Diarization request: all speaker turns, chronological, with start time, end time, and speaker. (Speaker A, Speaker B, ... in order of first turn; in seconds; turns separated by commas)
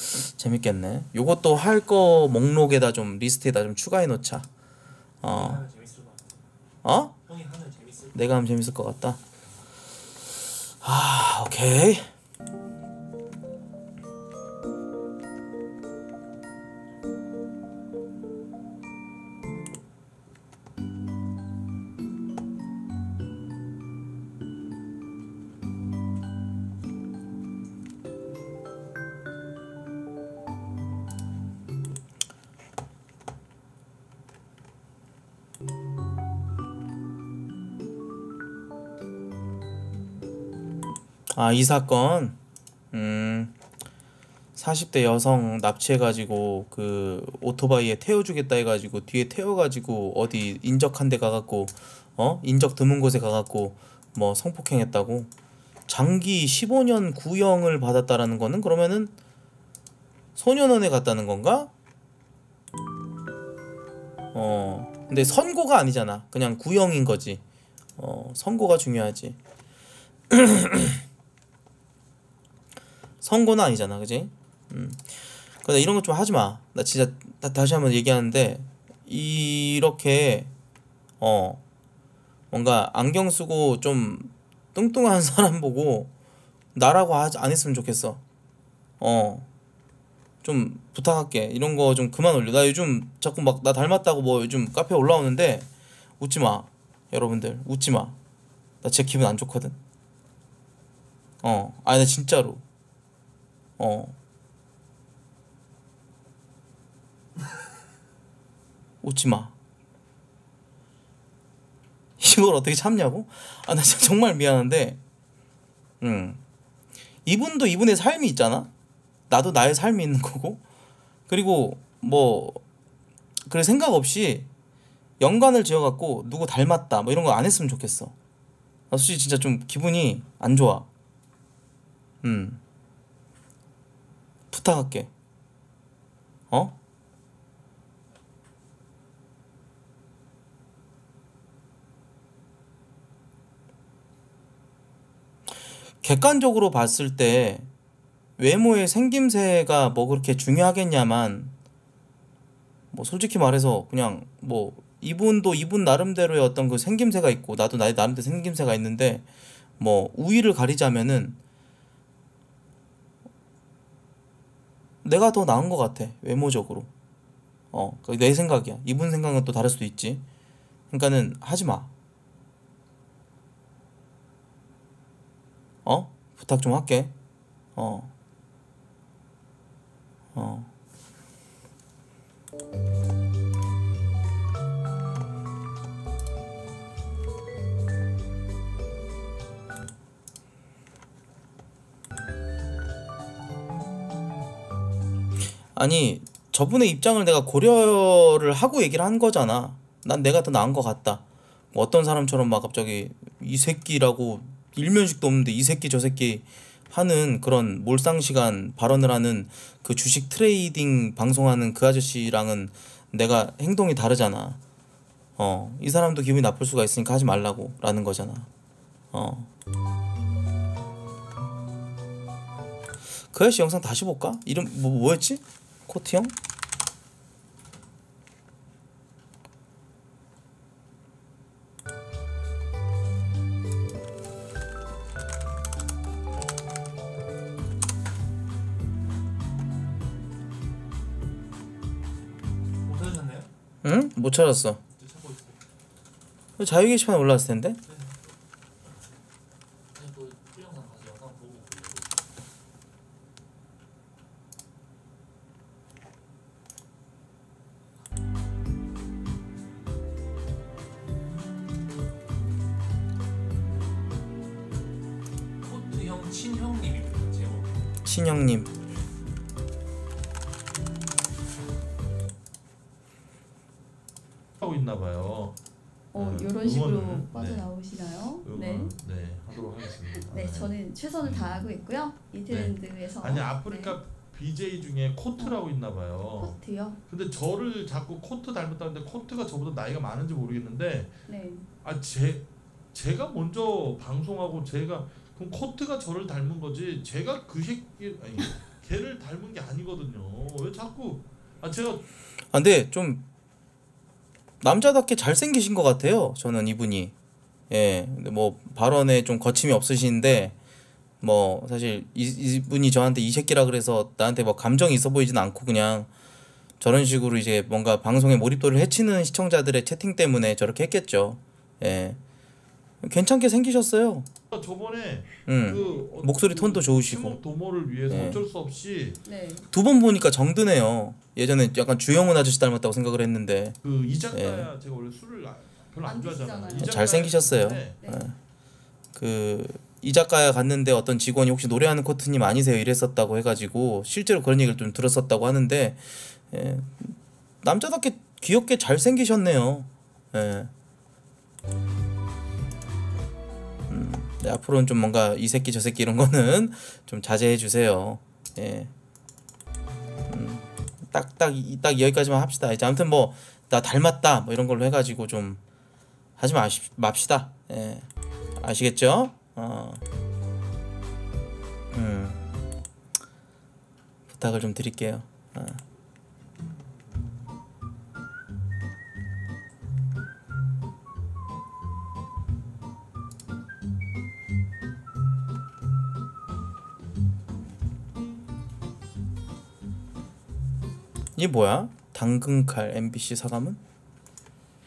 Speaker A: 0.4-4.5, Speaker A: 5.2-5.7, Speaker B: 5.2-6.4, Speaker A: 6.8-7.2, Speaker B: 7.2-8.4, Speaker A: 8.1-9.2, Speaker A: 10.8-12.1, Speaker A: 41.3-42.4, Speaker A: 42.9-43.5, Speaker A: 44.6-55.3, Speaker A: 55.9-59.1, Speaker A: 60.4-61.7, Speaker A: 64.3-67.4, Speaker A: 68.0-69.4, Speaker A: 70.3-71.0, Speaker A: 73.2-75.1, Speaker A: 75.6-80.5, Speaker A: 81.2-81.6, Speaker A: 82.5-86.1, Speaker A: 86.8-88.2, Speaker A: 89.0-89.5, Speaker A: 90.4-95.7, Speaker A: 96.2-98.2, Speaker A: 98.8-99.8, Speaker A: 101.4-102.6, Speaker A: 103.8-104.2, Speaker A: 109.0-109.5, Speaker A: 112.2-115.0, Speaker A: 116.0-116.4, Speaker A: 117.3-118.7, Speaker A: 119.3-120.6, Speaker A: 121.3-122.6, Speaker A: 123.5-124.5, Speaker A: 125.2-128.1, Speaker A: 128.9-130.9, Speaker A: 132.2-132.6, Speaker A: 134.5-135.1, Speaker A: 136.5-136.8, Speaker A: 146.0-147.7, Speaker A: 148.4-151.5, Speaker A: 152.9-159.2, Speaker A: 159.8-161.4, Speaker A: 165.0-166.9, Speaker A: 167.7-170.2, Speaker A: 170.9-171.9, Speaker A: 175.8-177.1, Speaker A: 177.8-178.1, Speaker A: 180.3-180.7, Speaker A: 195.8-214.6, Speaker A: 215.4-218.5, Speaker A: 219.1-219.5, Speaker A: 223.3-226.3, Speaker B: 242.8-243.5, Speaker A: 243.8-244.8, Speaker B: 245.0-245.6, Speaker A: 246.6-247.8, Speaker B: 247.9-248.2, Speaker B: 249.9-252.2, Speaker B: 265.6-267.7, Speaker A: 268.1-268.7, Speaker C: 274.6-275.6, Speaker D: 276.1-279.0, Speaker C: 276.1-277.8, Speaker C: 278.4-281.7, Speaker D: 279.5-284.0, Speaker C: 282.5-291.2, Speaker D: 285.4-287.0, Speaker D: 291.3-291.7, Speaker C: 291.8-302.0, Speaker A: 302.5-303.2, Speaker A: 304.6-307.1, Speaker A: 307.7-310.6, Speaker A: 311.2-316.1, Speaker A: 316.8-322.2, Speaker A: 323.0-324.3, Speaker C: 324.5-329.2, Speaker A: 325.5-327.4, Speaker D: 325.7-326.1, Speaker A: 328.1-328.4, Speaker D: 329.2-329.7, Speaker A: 329.7-333.8, Speaker C: 333.8-338.0, Speaker A: 334.3-334.7, Speaker D: 336.0-337.3, Speaker A: 336.8-338.3, Speaker D: 338.0-338.2, Speaker A: 339.2-350.7, Speaker A: 353.9-358.9, Speaker A: 360.3-365.6, Speaker A: 366.4-370.0, Speaker A: 371.9-372.4, Speaker A: 374.3-375.8, Speaker A: 391.4-393.8